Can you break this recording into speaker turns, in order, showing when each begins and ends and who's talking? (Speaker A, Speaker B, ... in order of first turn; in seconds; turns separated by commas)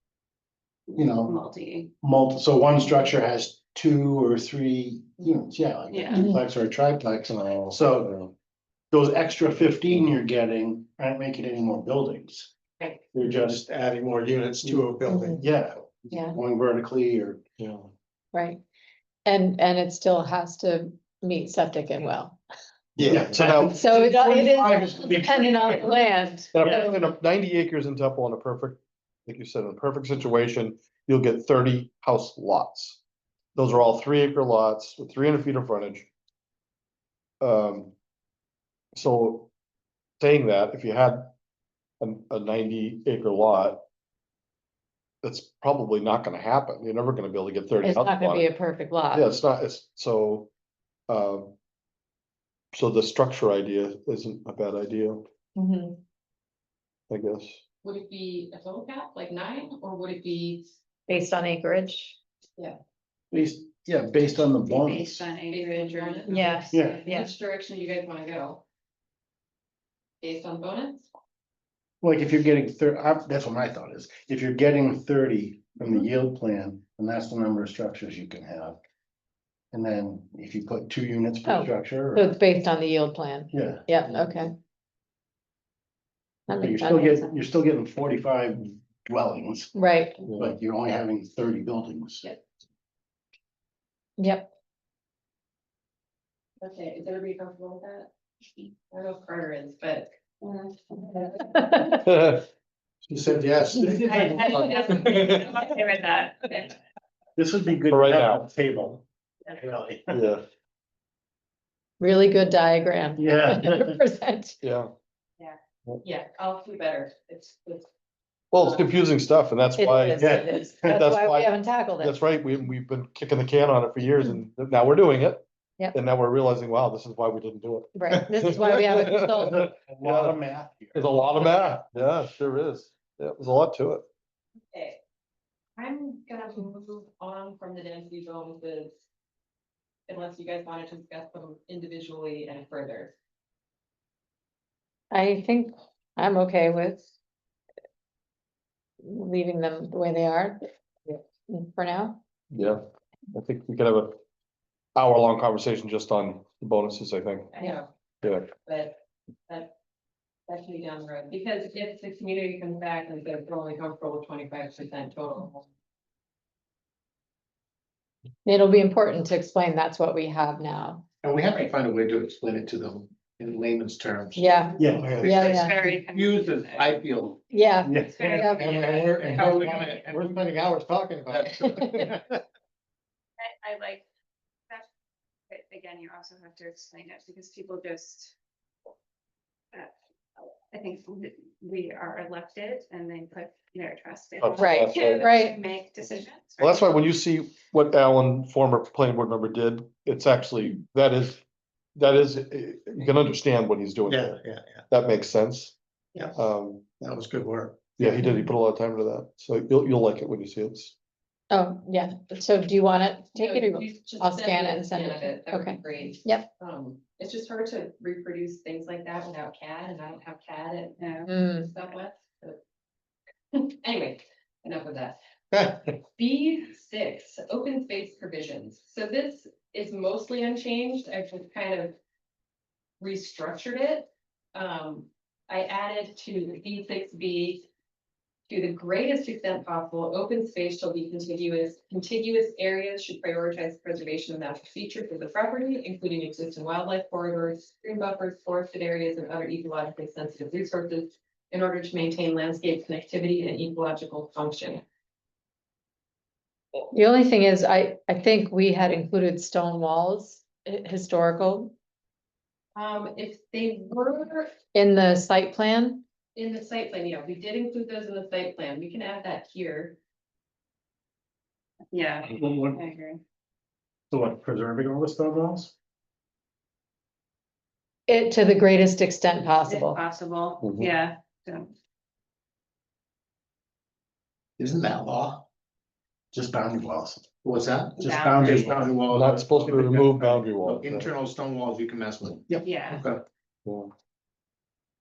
Speaker A: 0.9-1.9, Speaker B: 0.9-1.4, Speaker B: 2.0-8.2, Speaker A: 5.9-6.3, Speaker C: 6.1-6.4, Speaker D: 7.8-8.3, Speaker B: 8.9-12.5, Speaker B: 13.1-13.7, Speaker E: 13.7-15.3, Speaker B: 14.6-17.4, Speaker C: 15.1-15.4, Speaker D: 17.6-17.9, Speaker C: 18.3-18.6, Speaker C: 19.2-22.4, Speaker D: 23.0-23.8, Speaker B: 23.0-26.1, Speaker C: 23.8-26.9, Speaker D: 26.5-33.0, Speaker D: 33.6-36.1, Speaker D: 37.4-37.9, Speaker D: 39.0-39.5, Speaker D: 40.2-41.3, Speaker D: 42.0-43.8, Speaker D: 45.2-48.5, Speaker C: 47.8-49.3, Speaker D: 49.1-50.5, Speaker D: 51.1-51.6, Speaker D: 52.7-55.2, Speaker C: 55.6-56.0, Speaker D: 57.1-57.6, Speaker F: 57.8-60.7, Speaker C: 61.1-62.2, Speaker B: 63.3-65.3, Speaker A: 64.6-66.9, Speaker F: 65.5-68.6, Speaker C: 66.3-67.3, Speaker B: 66.7-67.0, Speaker F: 70.2-71.0, Speaker B: 72.0-78.8, Speaker B: 79.7-82.3, Speaker C: 81.5-84.5, Speaker B: 83.5-83.9, Speaker C: 86.5-87.3, Speaker B: 86.6-89.8, Speaker C: 89.8-90.2, Speaker D: 90.3-90.5, Speaker B: 90.3-92.2, Speaker C: 94.2-94.5, Speaker F: 96.6-98.1, Speaker F: 98.9-100.1, Speaker A: 100.4-101.0, Speaker F: 101.2-101.7, Speaker C: 101.5-102.0, Speaker D: 102.0-102.4, Speaker B: 103.0-104.7, Speaker A: 103.9-106.7, Speaker F: 104.2-105.4, Speaker C: 104.5-104.8, Speaker B: 107.4-110.2, Speaker D: 107.9-108.5, Speaker D: 110.1-110.4, Speaker C: 112.0-114.6, Speaker B: 113.2-114.0, Speaker D: 114.6-114.9, Speaker F: 115.4-117.9, Speaker D: 118.5-120.3, Speaker F: 118.5-118.9, Speaker C: 119.8-122.2, Speaker B: 120.2-121.0, Speaker D: 120.8-130.4, Speaker C: 128.0-129.7, Speaker B: 129.4-131.8, Speaker D: 130.9-134.1, Speaker F: 134.7-135.0, Speaker F: 135.8-139.0, Speaker F: 140.1-143.1, Speaker C: 145.1-147.1, Speaker C: 149.0-152.2, Speaker D: 152.5-152.8, Speaker D: 153.3-154.2, Speaker D: 155.0-157.5, Speaker F: 157.5-157.9, Speaker D: 158.2-158.5, Speaker F: 158.6-159.7, Speaker F: 160.5-165.7, Speaker C: 168.4-171.1, Speaker E: 171.2-177.4, Speaker C: 174.3-175.8, Speaker B: 174.8-175.1, Speaker D: 175.0-175.3, Speaker A: 175.2-177.0, Speaker C: 177.5-178.8, Speaker B: 177.8-178.5, Speaker A: 178.0-179.9, Speaker E: 178.2-180.4, Speaker D: 178.9-182.2, Speaker C: 181.7-182.1, Speaker A: 183.4-184.0, Speaker A: 185.5-188.3, Speaker A: 190.7-196.8, Speaker D: 194.4-195.3, Speaker C: 194.6-195.6, Speaker D: 196.6-201.4, Speaker D: 202.0-204.4, Speaker E: 204.1-204.8, Speaker D: 204.9-205.8, Speaker D: 206.3-206.9, Speaker E: 207.0-208.2, Speaker D: 208.0-210.9, Speaker C: 211.5-216.5, Speaker F: 213.3-222.6, Speaker A: 221.0-221.3, Speaker C: 221.3-221.7, Speaker F: 223.5-225.2, Speaker F: 226.1-232.0, Speaker F: 233.0-237.7, Speaker F: 238.5-254.8, Speaker C: 256.9-261.7, Speaker F: 262.8-264.5, Speaker C: 264.7-266.0, Speaker F: 266.4-270.0, Speaker A: 271.9-273.2, Speaker B: 272.4-272.8, Speaker B: 274.1-275.7, Speaker C: 278.1-280.0, Speaker A: 279.6-281.7, Speaker D: 280.6-280.9, Speaker E: 284.6-285.5, Speaker B: 286.3-287.3, Speaker E: 287.4-293.2, Speaker B: 288.0-288.9, Speaker A: 288.0-288.8, Speaker D: 289.1-291.1, Speaker A: 292.6-293.0, Speaker D: 293.6-293.9